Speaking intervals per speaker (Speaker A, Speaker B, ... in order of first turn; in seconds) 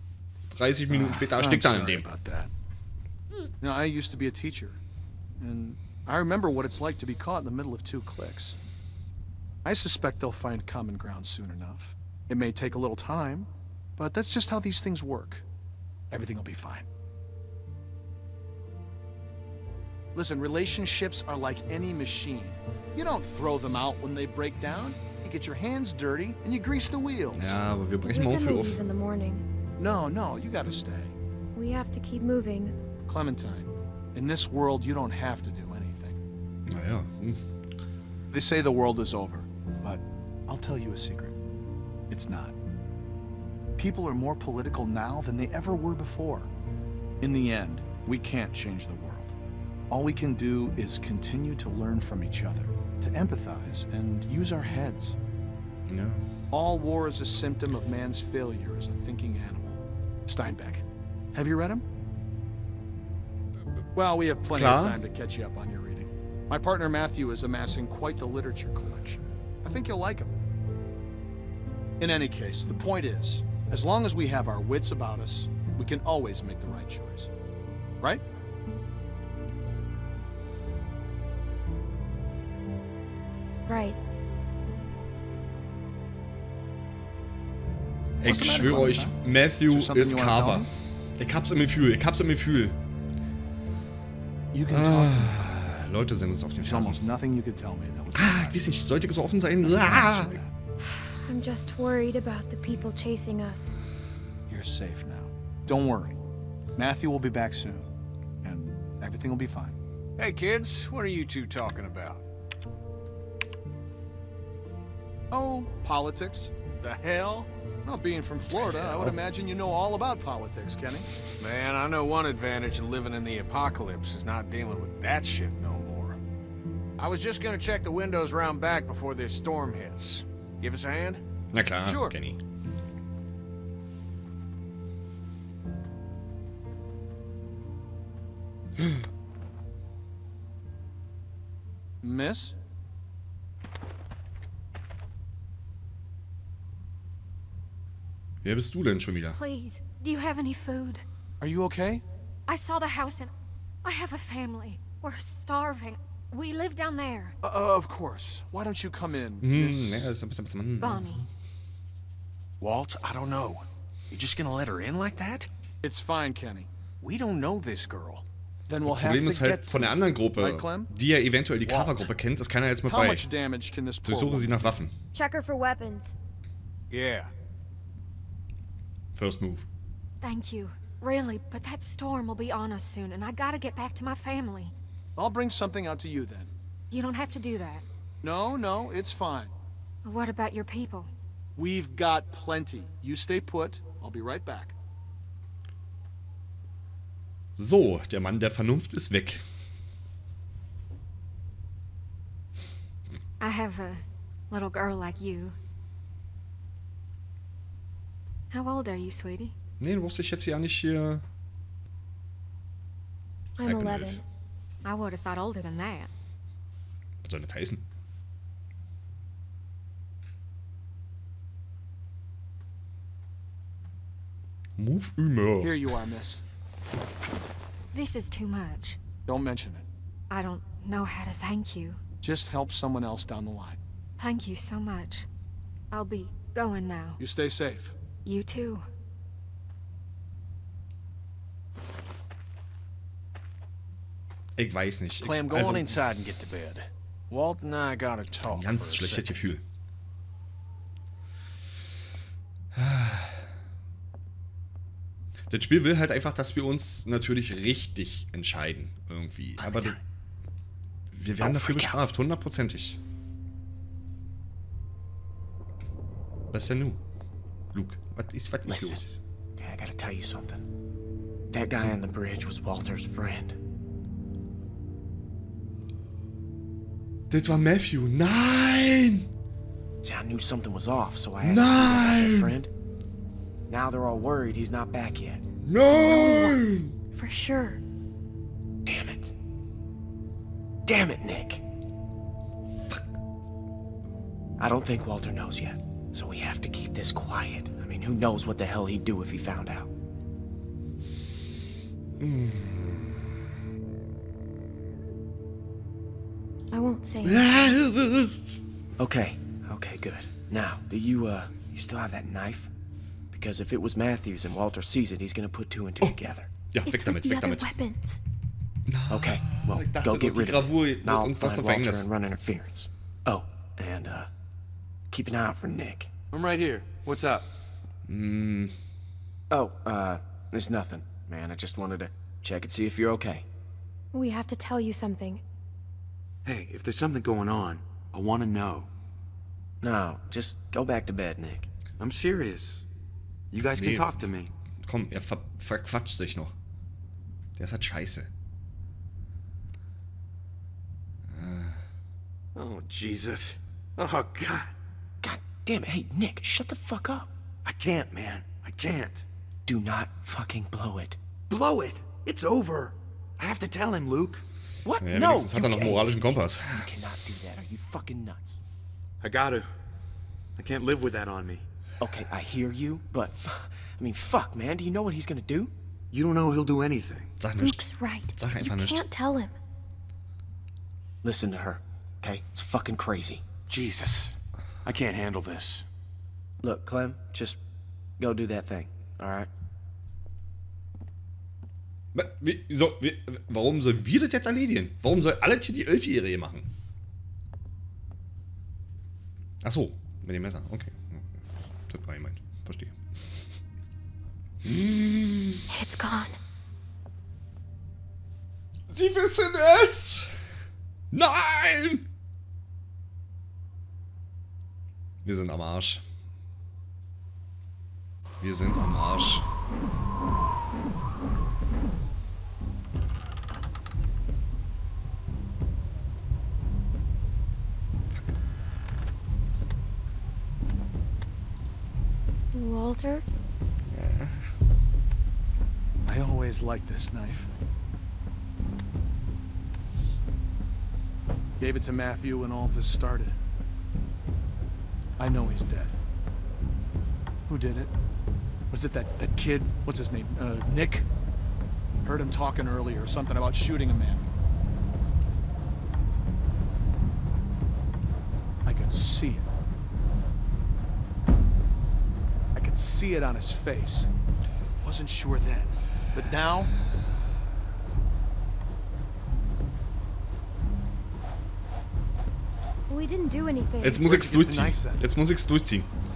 Speaker A: 0.5-2.1, 27.3-28.8, 36.7-37.4, 55.9-56.2, 64.5-65.0, 88.2-90.7, 91.2-92.8, 94.7-97.0, 98.1-100.4, 118.7-119.2, 131.5-132.4, 148.4-149.4, 159.4-161.2, 168.8-173.3, 174.0-174.9, 179.2-179.7, 197.6-199.4, 209.8-211.2, 213.6-214.2, 217.2-217.8, 224.8-225.8, 244.6-246.0, 248.4-249.6, 252.7-253.5, 255.5-260.0, 261.1-263.0, 266.5-267.0, 267.7-269.2, 277.3-279.3, 281.4-282.6, 285.6-286.9, 302.2-303.1, 307.2-308.4, 316.7-317.7, 318.9-322.1, 328.1-328.8, 343.7-344.3, 344.9-346.5, 347.6-348.3, 351.3-351.8, 365.0-366.9, 377.4-379.1, 392.1-396.7, 399.6-402.9, 404.6-405.6, 408.9-410.3, 411.1-412.1, 415.2-416.0, 418.4-419.5, 433.9-434.4, 473.8-475.9
Speaker B: 0.9-2.5, 3.6-4.8, 5.4-8.6, 9.6-15.4, 16.1-16.9, 20.1-27.6, 29.8-31.1, 33.1-36.2, 38.3-41.4, 42.1-42.5, 43.8-46.5, 47.2-49.3, 49.9-55.2, 56.5-61.9, 64.0-70.3, 72.0-77.3, 88.2-90.7, 94.5-95.4, 96.6-98.7, 99.6-100.5, 104.5-106.2, 106.8-107.9, 108.4-109.8, 115.3-116.5, 117.9-121.1, 142.0-142.6, 151.4-152.0, 157.4-160.1, 165.8-166.7, 168.7-170.9, 172.9-174.8, 185.2-186.5, 188.2-189.5, 191.6-194.8, 225.6-226.4, 229.3-229.9, 232.2-233.8, 237.2-237.9, 436.1-437.5, 441.6-443.4, 445.2-445.9, 447.5-447.9, 448.7-451.1, 452.0-454.3, 458.6-459.5, 462.5-464.1, 464.8-466.7, 474.0-475.1
Speaker C: 28.1-29.4, 31.5-32.8, 83.7-84.0, 100.9-103.8, 175.1-176.2, 213.6-214.2, 285.9-287.8, 306.7-307.4, 316.9-318.2, 334.1-335.4, 377.6-379.6, 405.7-406.4, 432.5-433.2, 472.9-474.1
Speaker D: 110.2-112.2, 116.8-117.5, 121.4-126.2, 127.0-131.2, 131.8-132.2, 162.6-165.5, 167.0-168.3, 171.6-172.1, 176.9-177.3, 245.2-249.3
Speaker E: 149.3-151.0, 152.5-153.3, 153.8-157.3, 160.8-161.2, 180.2-184.7, 186.9-187.8, 190.0-191.1, 203.4-205.6, 208.5-209.6, 214.8-216.1, 227.9-229.0, 230.3-232.0, 234.2-235.3, 235.9-237.2, 238.2-238.9
Speaker F: 261.4-262.0, 268.7-269.0, 269.6-270.7, 271.5-273.6, 280.0-282.7, 283.7-285.4, 288.9-289.3, 290.9-291.6, 294.6-299.9, 309.0-312.7, 313.3-316.5, 319.1-324.3, 325.1-326.1, 329.5-333.5, 339.8-341.7, 355.2-357.3, 359.7-361.2, 365.0-368.6, 372.0-375.7, 381.2-383.5, 386.6-387.6, 388.2-389.5
Speaker G: 326.3-327.5, 336.4-338.9, 342.0-342.8, 343.5-344.5, 352.6-354.7, 357.6-359.3, 361.5-365.0, 369.2-369.7, 370.6-371.6, 376.1-377.3, 383.7-385.9